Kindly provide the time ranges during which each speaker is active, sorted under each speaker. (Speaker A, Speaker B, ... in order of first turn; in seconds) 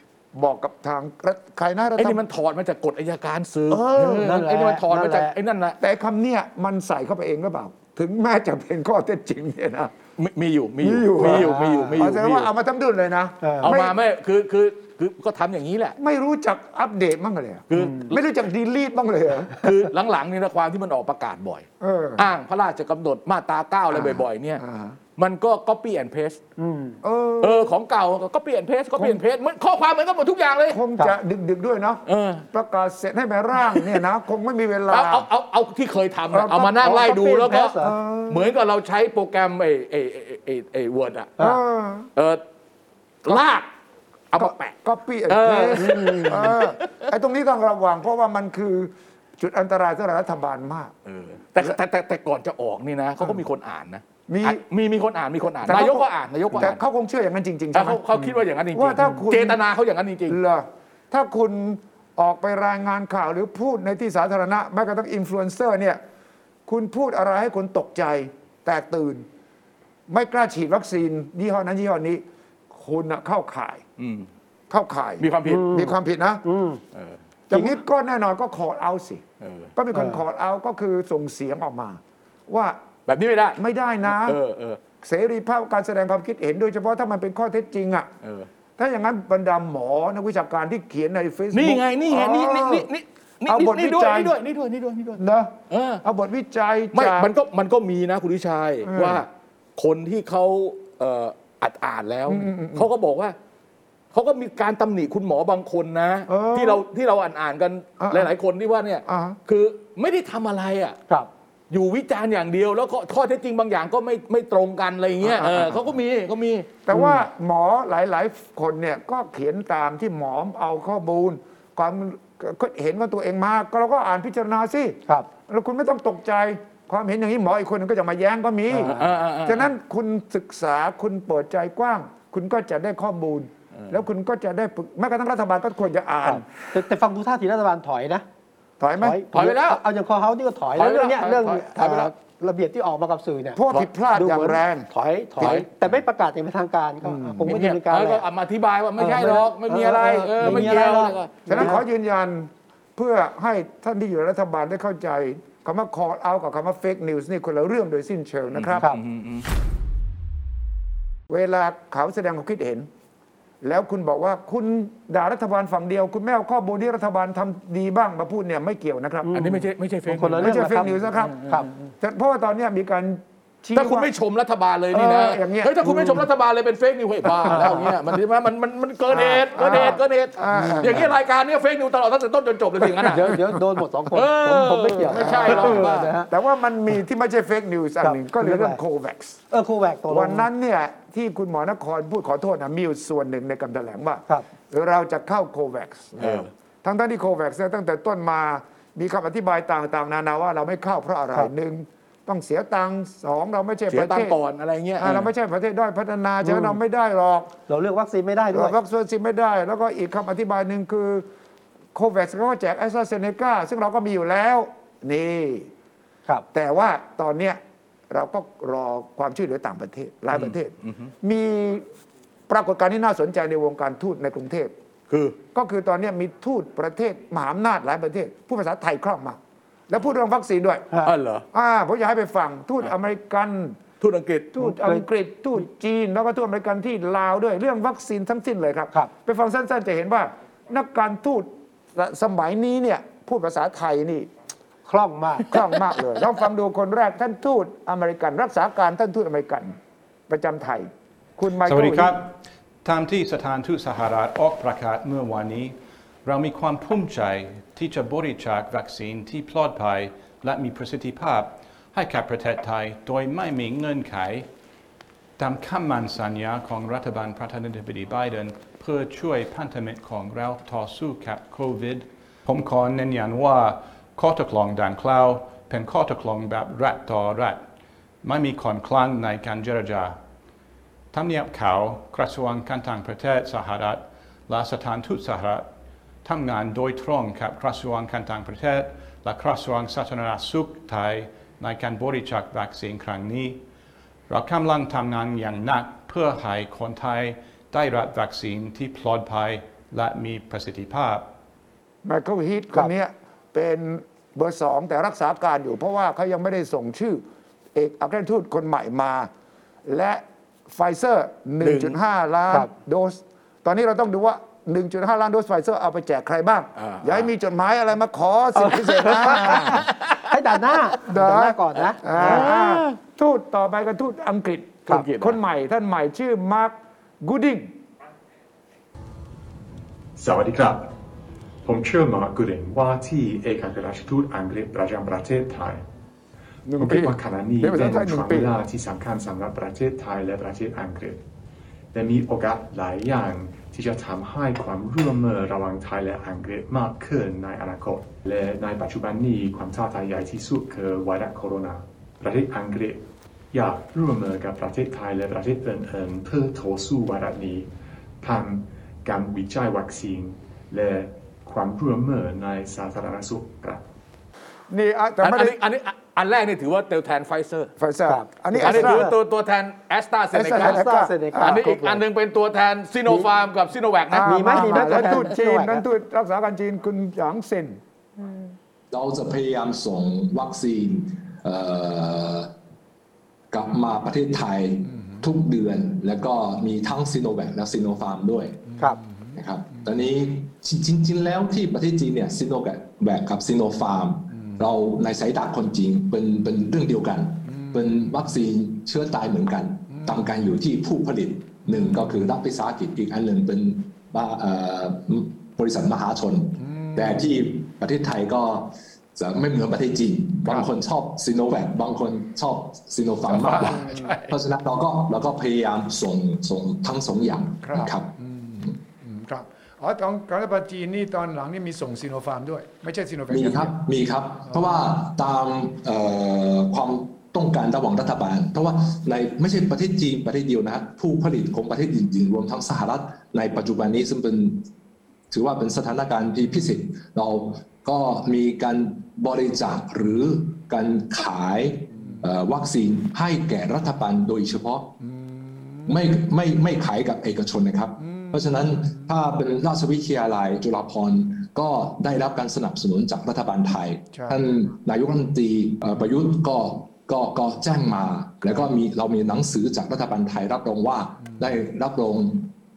Speaker A: 0.3-2.2, 3.7-4.4, 5.8-9.9, 10.8-14.0, 16.0-19.6, 21.8-22.3, 23.9-25.0, 27.0-27.7, 28.9-29.2, 30.7-35.3, 36.3-38.5, 41.4-42.1, 44.4-50.9, 54.3-54.6, 55.6-59.6, 60.3-66.0, 66.7-69.3, 70.1-73.8, 74.7-76.4, 77.5-79.2, 79.8-82.8, 83.6-84.4, 85.0-88.1, 88.8-92.9, 93.5-94.4, 95.2-97.3, 98.8-99.2, 102.3-102.9, 106.3-106.8, 108.0-108.3, 109.1-109.4, 115.2-115.9, 116.9-136.5, 138.8-139.2, 143.6-144.9, 145.4-145.7, 147.0-147.6, 150.4-158.8, 161.3-162.9, 163.6-169.3, 170.4-174.1, 174.9-176.3, 177.3-177.9, 179.1-181.1, 182.9-183.3, 185.1-189.4, 190.1-204.4, 205.0-207.5, 208.5-211.3, 211.9-215.7, 216.5-221.8, 222.5-224.7, 225.5-229.4, 229.9-230.9, 231.5-233.8, 234.5-244.3, 245.5-249.8, 250.3-252.2, 302.0-307.2, 307.7-309.3, 309.9-319.9, 321.1-327.8, 336.7-338.5, 364.7-365.6, 367.8-369.1, 370.3-371.8, 373.1-373.3, 374.1-377.8, 388.8-389.3, 397.5-397.8, 401.7-402.2, 406.6-407.3, 413.3-414.3, 417.6-423.8, 424.5-424.8, 441.9-442.2, 445.0-445.9, 448.0-449.1, 454.1-454.4
Speaker B: 2.0-5.8, 10.2-12.5, 13.6-16.0, 17.7-18.2, 19.6-21.7, 22.2-24.6, 25.2-26.4, 27.4-30.8, 32.1-32.5, 34.9-37.8, 38.3-41.4, 42.1-42.4, 43.2-43.7, 44.3-44.8, 45.3-47.1, 51.1-56.8, 57.7-60.4, 74.0-74.3, 75.2-75.7, 76.9-77.2, 79.4-79.7, 83.1-83.6, 84.1-84.8, 88.2-88.5, 91.5-96.0, 96.9-103.3, 104.1-111.0, 111.7-116.7, 128.8-129.7, 139.3-139.8, 140.8-142.1, 145.4-145.9, 147.5-151.7, 158.6-159.5, 169.3-171.7, 173.8-183.4, 184.1-186.1, 196.2-196.5, 203.9-205.3, 220.3-221.1, 225.1-225.4, 231.0-231.5, 234.0-234.5, 311.6-312.0, 316.8-317.3, 319.2-320.2, 322.2-323.0, 324.9-325.4, 365.2-367.7, 368.6-370.8, 371.3-375.2
Speaker C: 4.2-5.3, 11.2-12.0, 13.4-13.7, 17.8-18.1, 26.6-27.0, 36.8-38.0, 45.8-46.5, 75.5-76.8, 77.5-77.8, 79.9-80.2, 128.7-129.0, 136.2-138.2, 139.0-148.2, 149.0-151.8, 169.2-171.7, 177.5-177.9, 183.1-186.3, 188.0-188.8, 189.5-190.5, 206.4-206.8, 207.7-208.8, 234.6-235.1, 244.9-245.5, 318.6-322.5, 368.1-369.1, 370.5-372.0, 374.3-375.9
Speaker D: 251.6-264.5, 265.4-277.6, 278.2-280.2, 281.1-285.7, 286.2-293.6, 294.3-301.3
Speaker E: 330.2-330.9, 331.6-335.8, 336.8-341.2, 341.9-357.7, 358.2-363.9
Speaker F: 378.9-382.5, 383.5-388.8, 389.3-418.2, 423.3-434.7, 435.3-445.0, 445.9-462.5